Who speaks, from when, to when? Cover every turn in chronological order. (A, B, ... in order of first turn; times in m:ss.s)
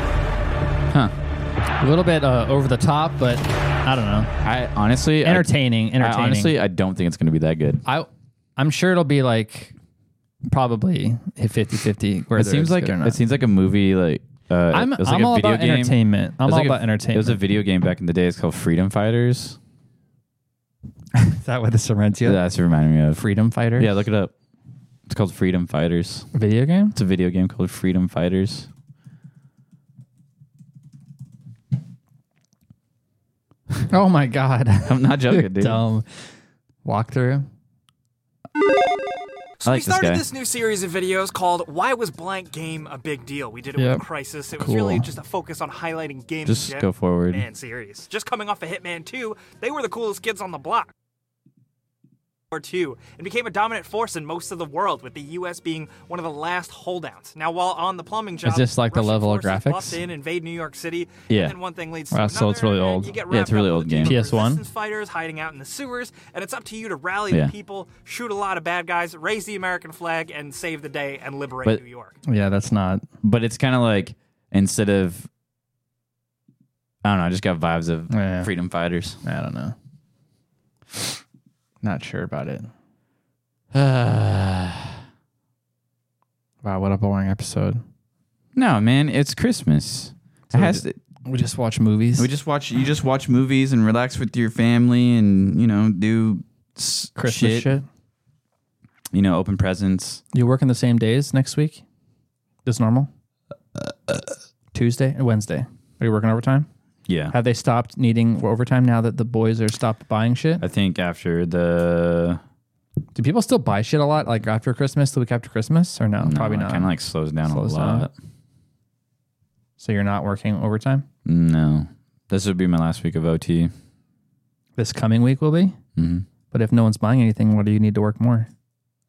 0:01.8-0:04.3 A
0:04.4-0:07.8 B
0:05.2-0:06.6 A
0:07.8-0:09.7 A
0:10.5-0:13.2 A
0:12.3-0:19.6 B
0:14.7-0:17.4 A
0:21.2-0:22.4 A
0:22.2-0:23.2 B
0:23.2-0:23.9 A
0:23.8-0:24.3 B
0:25.1-0:26.3 B
0:26.3-0:27.0 A
0:26.9-0:28.7 B
0:33.9-0:36.1 A
0:34.8-0:35.8 B
0:36.8-0:37.4 A
0:39.6-0:50.9 C
0:39.6-0:40.2 B
0:43.8-0:45.1 A
0:46.4-0:47.4 B
0:52.5-1:12.2 C
0:58.4-1:00.0 A
1:01.3-1:01.6 B
1:02.1-1:03.2 A
1:03.3-1:04.4 B
1:04.0-1:04.6 A
1:07.3-1:07.5 B
1:12.2-1:13.0 A
1:13.2-1:15.3 B
1:17.0-1:19.2 B
1:18.1-1:18.5 A
1:19.2-1:19.7 A
1:21.8-1:22.7 A
1:23.7-1:24.9 B
1:26.6-1:27.8 A
1:28.5-1:31.0 B
1:30.5-1:32.3 A
1:32.2-1:37.7 B
1:37.2-1:37.8 A
1:39.1-1:40.2 B
1:40.3-1:41.8 A
1:42.6-1:43.1 A
1:44.7-1:46.7 A
1:47.1-1:47.3 B
1:47.3-1:50.6 A
1:50.6-1:52.4 B
1:53.1-1:56.9 A
1:56.2-1:58.1 B
1:57.4-1:58.1 A
1:59.8-2:01.0 A
2:01.2-2:03.7 B
2:04.8-2:05.8 A
2:06.0-2:06.2 B
2:06.5-2:08.5 A